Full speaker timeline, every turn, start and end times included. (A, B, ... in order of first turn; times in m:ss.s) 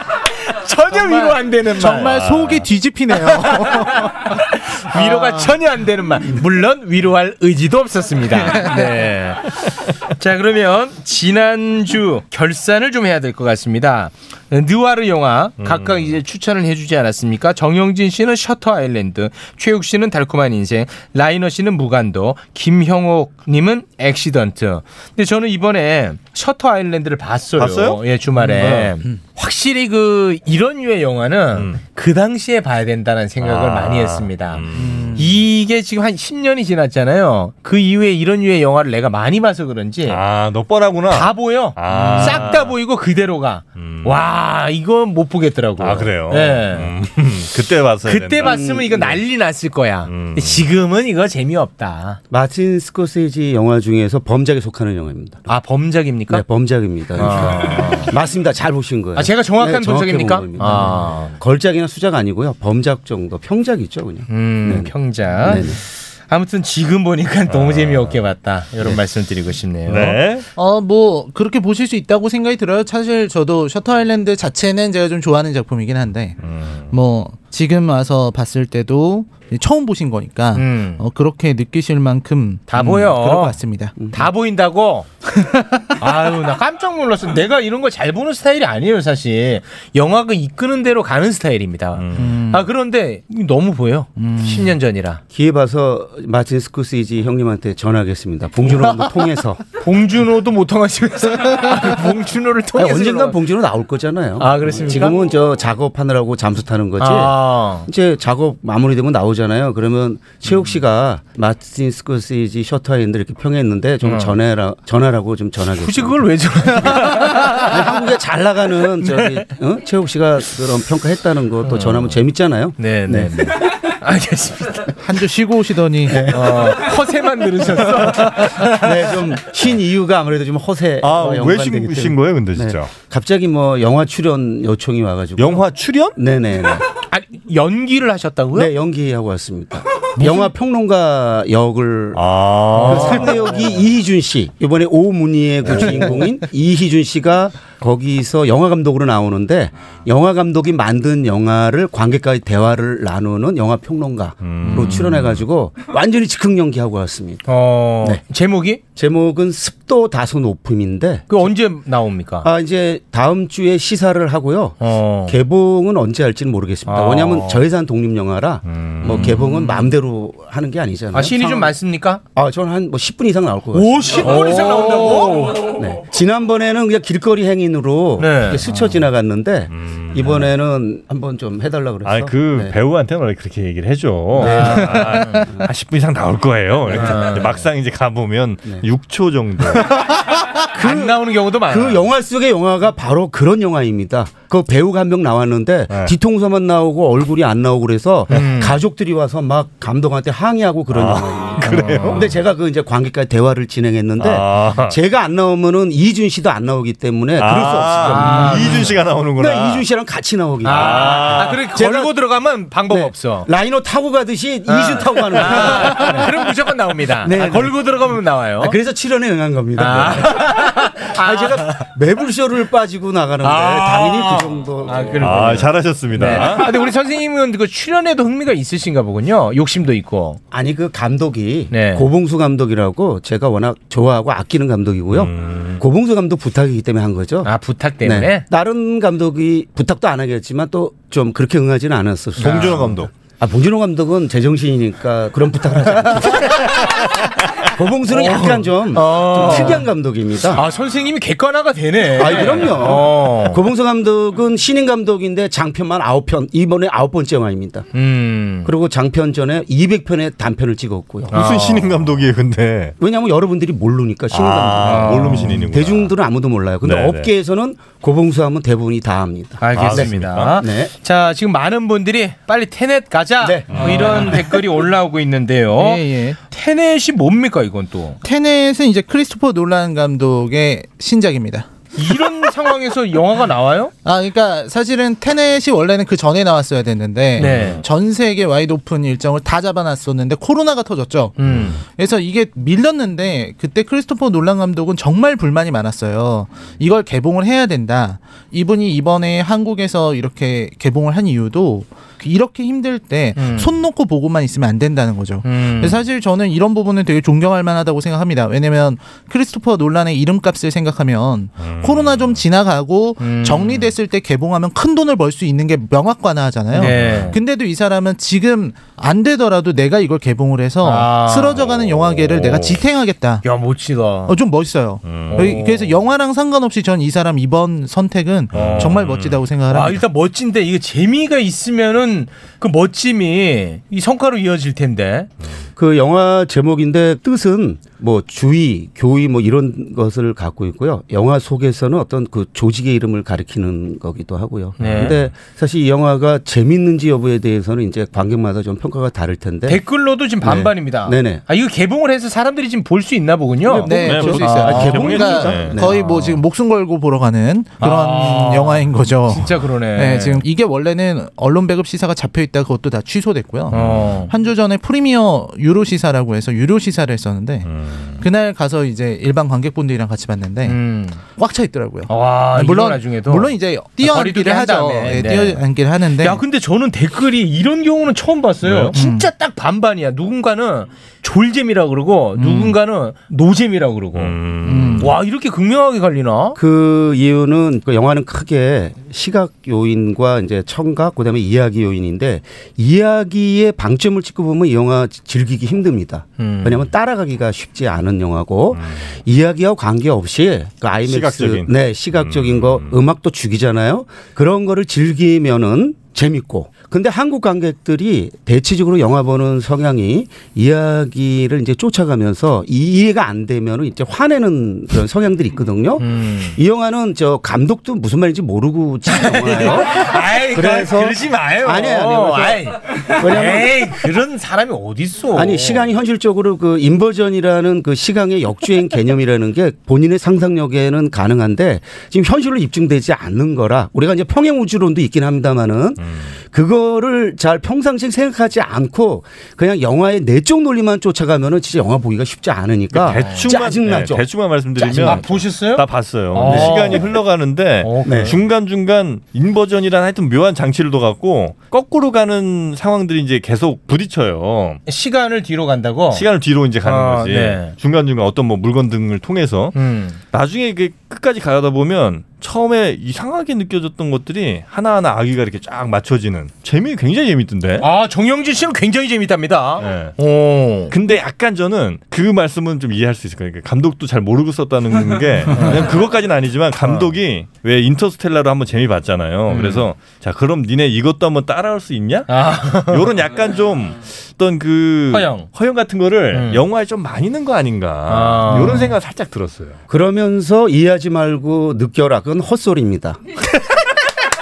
0:00.6-0:02.3 A
0:00.9-0:04.3 B
0:02.1-0:02.6 C
0:03.2-0:40.2 A
0:04.9-0:05.5 B
0:08.5-0:08.9 B
0:15.6-0:16.2 C
0:27.6-0:28.0 C
0:28.3-0:29.2 B
0:31.5-0:31.8 C
0:33.4-0:35.2 C
0:34.7-0:35.3 B
0:40.0-0:42.8 C
0:41.1-0:46.9 A
0:43.8-0:44.2 C
0:45.8-0:48.6 C
0:48.0-0:52.2 A
0:48.4-0:49.2 D
0:50.1-0:50.7 C
0:52.3-0:55.5 D
0:55.5-0:56.4 A
0:56.3-1:05.8 D
0:57.2-0:58.1 A
0:59.2-1:01.4 A
1:04.3-1:10.2 A
1:07.5-1:08.2 C
1:09.9-1:10.4 C
1:10.5-1:16.4 B
1:16.4-1:16.9 C
1:16.9-1:24.0 B
1:20.5-1:21.0 A
1:22.7-1:25.1 A
1:23.9-1:24.3 D
1:25.4-1:25.9 B
1:26.0-1:35.2 A
1:31.9-1:32.3 C
1:32.2-1:32.7 B
1:34.2-1:34.8 B
1:35.3-1:39.6 D
1:38.6-1:39.1 A
1:39.7-1:43.4 A
1:42.7-2:03.6 D
1:44.4-1:45.3 A
1:47.0-1:47.9 A
1:54.0-1:54.3 A
1:55.7-1:57.9 A
1:57.1-1:57.4 B
1:59.0-1:59.4 A
2:01.6-2:02.2 A
2:02.8-2:04.9 A
2:05.0-2:06.3 B
2:06.1-2:06.8 D
2:06.2-2:09.1 A
2:08.7-2:16.8 D
2:11.0-2:12.9 C
2:15.4-2:16.2 C
2:17.0-2:18.7 A
2:18.5-2:37.5 D
2:20.2-2:20.5 A
2:22.1-2:23.7 C
2:22.8-2:23.4 A
2:25.6-2:26.0 C
2:34.4-2:35.4 C
2:34.6-2:35.3 A
2:37.5-2:38.8 A
2:38.9-2:41.5 D
2:41.3-2:42.5 A
2:42.4-2:51.8 D
2:44.8-2:45.4 A
2:46.9-2:47.6 A
2:48.6-2:49.2 C
2:49.0-2:49.9 A
2:51.1-2:52.2 A
2:52.3-3:02.8 D
2:53.7-2:55.8 A
2:58.2-2:58.7 A
2:59.7-3:00.4 C
3:02.0-3:09.9 C
3:04.4-3:05.5 A
3:04.4-3:05.6 D
3:04.9-3:05.4 B
3:06.9-3:07.2 D
3:06.9-3:07.6 A
3:10.7-3:12.1 A
3:10.8-3:32.2 D
3:18.3-3:18.8 A
3:20.9-3:22.3 C
3:21.6-3:22.2 A
3:24.2-3:24.9 C
3:27.4-3:29.8 C
3:27.9-3:28.9 A
3:30.6-3:33.5 A
3:30.6-3:31.7 C
3:32.9-3:36.3 D
3:34.7-3:38.7 A
3:37.2-3:38.0 D
3:38.6-3:46.5 D
3:39.8-3:41.8 A
3:43.4-3:50.4 A
3:45.2-3:46.8 C
3:50.5-4:06.9 D
3:51.7-3:52.1 A
3:55.1-3:55.8 C
3:57.4-3:58.4 A
4:02.4-4:02.8 A
4:02.4-4:03.1 C
4:06.3-4:06.9 A
4:07.6-4:10.6 D
4:08.1-4:09.9 A
4:10.5-4:13.6 A
4:12.1-4:17.9 D
4:17.9-4:18.7 A
4:18.6-4:21.4 D
4:21.3-4:22.2 A
4:21.3-4:23.0 C
4:23.0-4:30.9 D
4:24.3-4:26.1 C
4:24.8-4:25.6 A
4:26.8-4:27.3 C
4:29.6-4:38.2 A
4:29.7-4:30.6 C
4:33.4-4:34.5 D
4:33.7-4:34.4 C
4:35.8-4:36.4 B
4:38.2-4:41.7 B
4:41.9-4:43.9 A
4:44.0-5:23.4 B
4:47.4-4:47.8 A
4:47.4-4:47.8 C
4:51.4-4:51.8 A
4:51.4-4:51.7 C
5:03.4-5:03.7 A
5:05.4-5:06.0 A
5:11.6-5:12.4 C
5:13.2-5:13.9 A
5:16.7-5:17.4 A
5:20.8-5:21.7 A
5:21.6-5:22.8 C
5:23.4-5:24.4 A
5:24.3-5:30.0 B
5:25.0-5:25.6 C
5:25.1-5:26.0 A
5:28.5-5:29.4 C
5:28.6-5:28.9 A
5:29.7-5:35.3 A
5:35.8-5:51.4 D
5:44.8-5:45.2 A
5:44.8-5:45.1 C
5:49.7-5:56.4 A
5:53.6-5:55.9 D
5:53.8-6:16.4 B
5:53.9-5:56.1 C
5:57.8-6:00.4 A
6:03.7-6:04.3 A
6:03.7-6:04.0 C
6:07.6-6:08.3 C
6:10.6-6:11.2 A
6:12.1-6:26.6 A
6:18.6-6:19.0 C
6:18.9-6:19.3 B
6:22.3-6:22.8 B
6:24.2-6:25.1 C
6:24.6-6:25.1 B
6:26.5-7:03.9 D
6:36.4-6:36.9 A
6:38.8-6:39.0 C
6:41.0-6:43.0 C
6:56.0-6:56.6 A
6:59.1-7:05.9 A
7:05.3-7:25.5 D
7:16.0-7:16.3 C
7:22.9-7:34.8 C
7:23.1-7:23.7 A
7:24.8-7:27.2 A
7:26.4-7:27.1 D
7:27.8-7:28.4 A
7:28.0-7:28.4 D
7:34.8-7:36.3 A
7:36.1-7:39.7 C
7:36.8-7:37.7 A
7:39.7-7:40.2 A
7:40.3-7:47.9 C
7:47.8-7:50.9 A
7:49.8-7:50.2 C
7:50.9-8:09.8 C
7:55.5-7:55.9 A
7:59.5-7:59.8 A
8:02.3-8:03.1 A
8:05.1-8:05.5 A
8:06.3-8:06.6 A
8:08.1-8:09.0 A
8:09.9-8:13.2 D